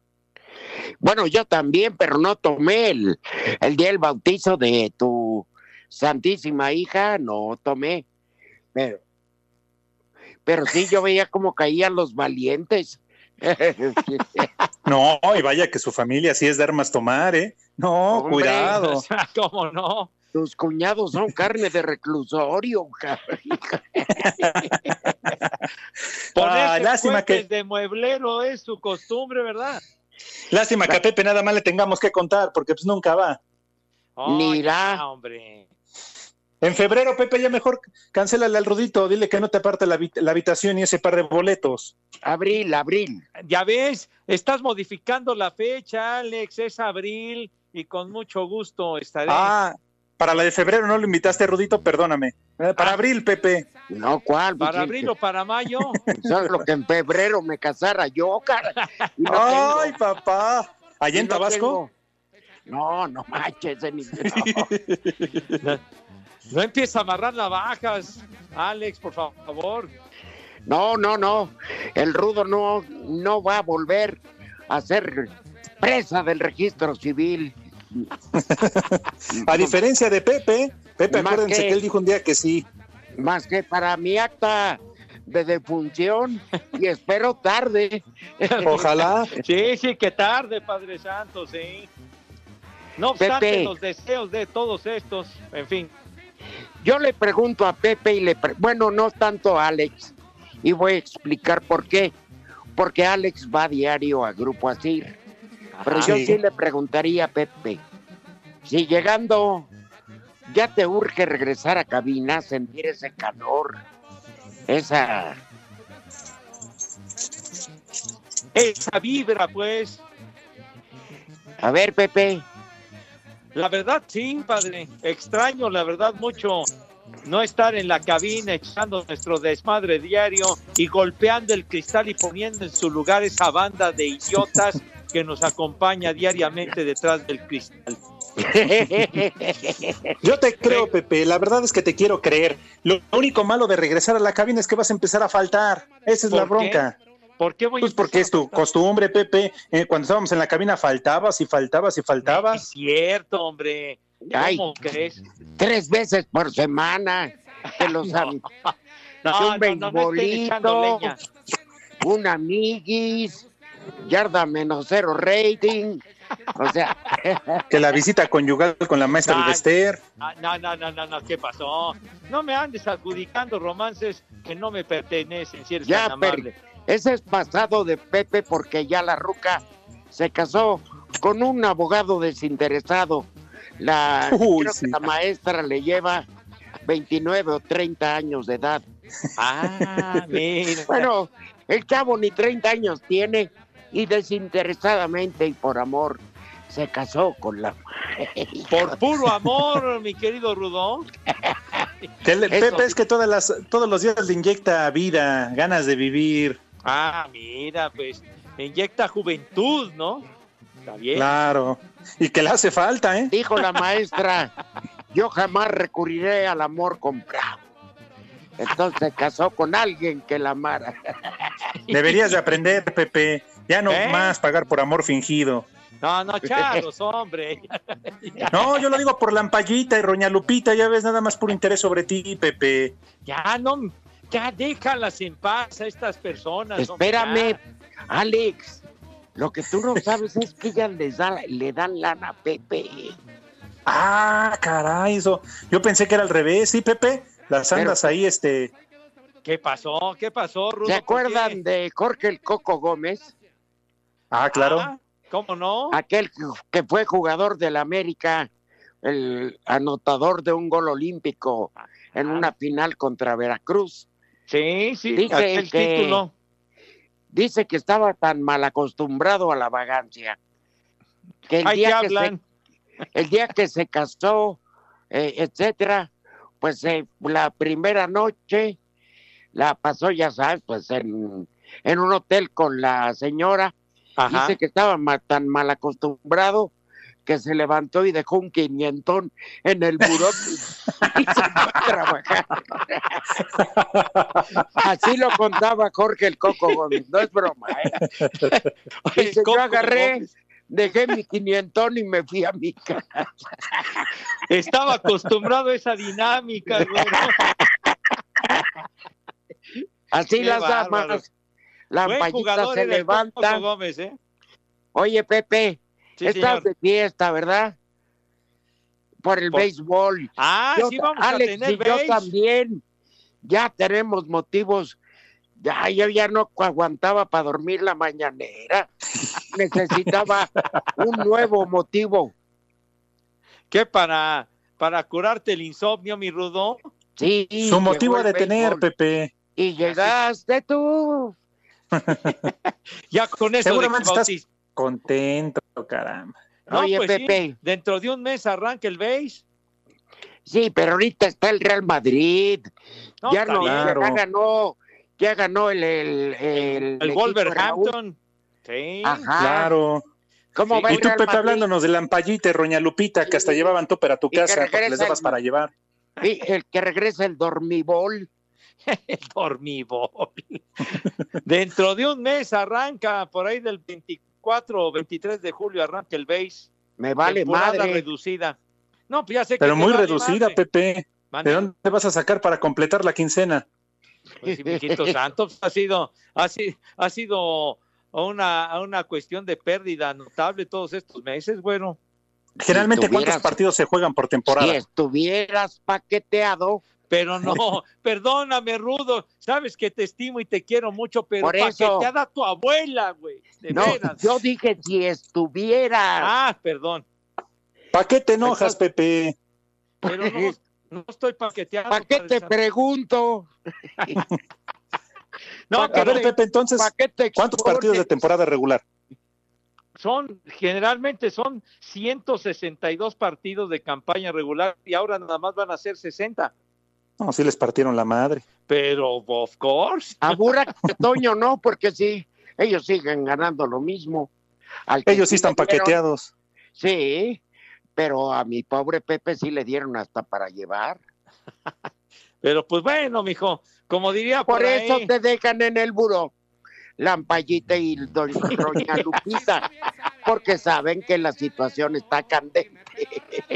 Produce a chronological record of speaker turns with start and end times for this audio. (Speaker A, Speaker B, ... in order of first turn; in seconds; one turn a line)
Speaker A: 1.0-8.1
Speaker A: 8.7-9.0
Speaker A: 10.4-14.5
Speaker B: 14.8-19.0
Speaker A: 18.1-18.8
Speaker C: 18.5-20.1
Speaker A: 20.3-24.5
Speaker B: 24.2-24.7
Speaker B: 26.4-27.4
Speaker C: 26.4-29.8
Speaker B: 30.5-33.4
Speaker C: 34.2-35.7
Speaker A: 34.2-35.0
Speaker B: 36.6-41.9
Speaker A: 42.2-43.2
Speaker C: 43.4-49.5
Speaker B: 49.3-53.6
Speaker A: 53.9-55.1
Speaker C: 54.6-56.0
Speaker A: 56.1-60.0
Speaker C: 58.8-59.1
Speaker B: 59.3-61.8
Speaker A: 61.1-61.9
Speaker A: 62.6-64.7
Speaker B: 64.3-65.1
Speaker C: 66.5-69.9
Speaker A: 70.7-78.1
Speaker B: 78.4-82.7
Speaker A: 79.3-79.8
Speaker A: 81.1-81.8
Speaker A: 83.1-89.1
Speaker C: 88.5-91.9
Speaker B: 88.6-89.3
Speaker C: 93.0-95.9
Speaker A: 93.2-93.7
Speaker A: 96.8-102.1
Speaker A: 102.7-105.1
Speaker C: 105.8-106.2
Speaker A: 105.8-107.8
Speaker B: 106.0-106.3
Speaker A: 108.6-109.7
Speaker A: 110.4-113.8
Speaker A: 114.7-115.4
Speaker C: 118.5-120.0
Speaker A: 121.6-122.5
Speaker C: 123.5-126.7
Speaker C: 127.2-138.0
Speaker A: 138.4-140.2
Speaker B: 140.2-146.9
Speaker C: 146.3-146.8
Speaker C: 147.4-148.7
Speaker B: 147.8-152.6
Speaker C: 152.2-155.2
Speaker A: 154.2-154.7
Speaker A: 155.6-158.4
Speaker C: 157.7-158.7
Speaker C: 159.2-161.2
Speaker A: 159.3-161.2
Speaker A: 162.0-163.4
Speaker A: 164.0-166.0
Speaker A: 166.5-167.7
Speaker B: 167.7-170.0
Speaker C: 169.2-169.6
Speaker C: 170.2-176.5
Speaker A: 175.8-186.3
Speaker B: 184.3-185.0
Speaker A: 186.8-188.8
Speaker C: 189.4-191.1
Speaker A: 190.9-199.0
Speaker C: 198.7-201.1
Speaker B: 202.2-206.6
Speaker A: 202.5-202.9
Speaker C: 202.5-202.8
Speaker C: 206.8-210.2
Speaker C: 210.8-211.3
Speaker B: 211.1-213.3
Speaker A: 213.3-214.5
Speaker A: 215.1-217.7
Speaker A: 218.6-221.5
Speaker C: 221.9-222.3
Speaker B: 221.9-225.7
Speaker C: 223.9-224.3
Speaker C: 226.0-228.7
Speaker B: 228.5-232.9
Speaker C: 233.2-237.6
Speaker A: 236.8-238.8
Speaker A: 239.3-243.2
Speaker B: 243.8-248.7
Speaker A: 247.7-248.2
Speaker C: 249.4-251.6
Speaker A: 250.8-253.3
Speaker B: 254.3-254.9
Speaker C: 254.5-256.0
Speaker A: 255.9-258.5
Speaker A: 259.0-264.1
Speaker C: 261.8-262.5
Speaker C: 264.5-266.3
Speaker A: 265.1-266.2
Speaker A: 267.3-270.4
Speaker A: 271.5-272.3
Speaker C: 271.6-272.4
Speaker A: 273.1-274.6
Speaker A: 275.1-278.8
Speaker A: 279.5-283.7
Speaker C: 284.2-284.6
Speaker A: 284.3-286.7
Speaker A: 287.2-293.2
Speaker B: 293.6-294.4
Speaker A: 294.8-298.0
Speaker C: 298.5-300.3
Speaker A: 299.1-303.3
Speaker C: 304.5-307.4
Speaker A: 306.8-307.9
Speaker A: 310.1-311.2
Speaker C: 310.4-311.2
Speaker A: 311.9-313.6
Speaker C: 312.0-314.1
Speaker A: 314.9-317.8
Speaker C: 316.2-316.7
Speaker A: 319.2-322.8
Speaker C: 320.4-322.3
Speaker A: 323.4-325.0
Speaker A: 325.6-328.9
Speaker A: 329.5-332.3
Speaker C: 333.7-336.8
Speaker A: 337.2-338.8
Speaker B: 337.6-339.3
Speaker A: 339.6-341.4
Speaker C: 339.8-340.1
Speaker B: 341.9-342.4
Speaker C: 342.2-342.5
Speaker C: 343.1-344.4
Speaker B: 343.6-346.3
Speaker A: 346.7-347.6
Speaker C: 346.7-349.4
Speaker A: 350.4-352.7
Speaker C: 353.2-353.9
Speaker A: 353.2-357.9
Speaker B: 353.6-354.2
Speaker C: 356.5-359.3
Speaker A: 359.0-359.7
Speaker B: 359.4-360.0
Speaker A: 360.5-361.7
Speaker C: 360.6-361.0
Speaker B: 360.9-365.7
Speaker A: 363.2-363.7
Speaker A: 364.3-365.4
Speaker A: 366.2-368.3
Speaker C: 368.9-376.7
Speaker A: 377.0-378.0
Speaker C: 377.2-378.6
Speaker C: 379.1-380.6
Speaker B: 379.6-383.6
Speaker C: 381.3-381.7
Speaker C: 384.4-392.0
Speaker A: 384.4-385.1
Speaker B: 392.6-394.8
Speaker A: 392.7-393.5
Speaker A: 394.5-396.8
Speaker C: 397.1-404.3
Speaker A: 401.4-402.1
Speaker A: 403.7-406.3
Speaker C: 406.2-407.0
Speaker B: 407.9-409.3
Speaker A: 408.4-408.8
Speaker A: 410.0-410.5
Speaker C: 410.0-412.5
Speaker A: 411.9-413.5
Speaker C: 415.7-416.3
Speaker A: 415.7-418.2
Speaker B: 415.9-418.8
Speaker C: 420.0-426.5
Speaker B: 427.2-428.4
Speaker C: 428.7-430.4
Speaker A: 430.2-434.3
Speaker A: 434.9-435.9
Speaker B: 435.1-436.3
Speaker A: 436.8-437.4
Speaker A: 437.9-441.0
Speaker C: 442.4-445.1
Speaker A: 444.4-446.3
Speaker A: 447.0-449.6
Speaker C: 448.4-449.2
Speaker A: 450.2-453.4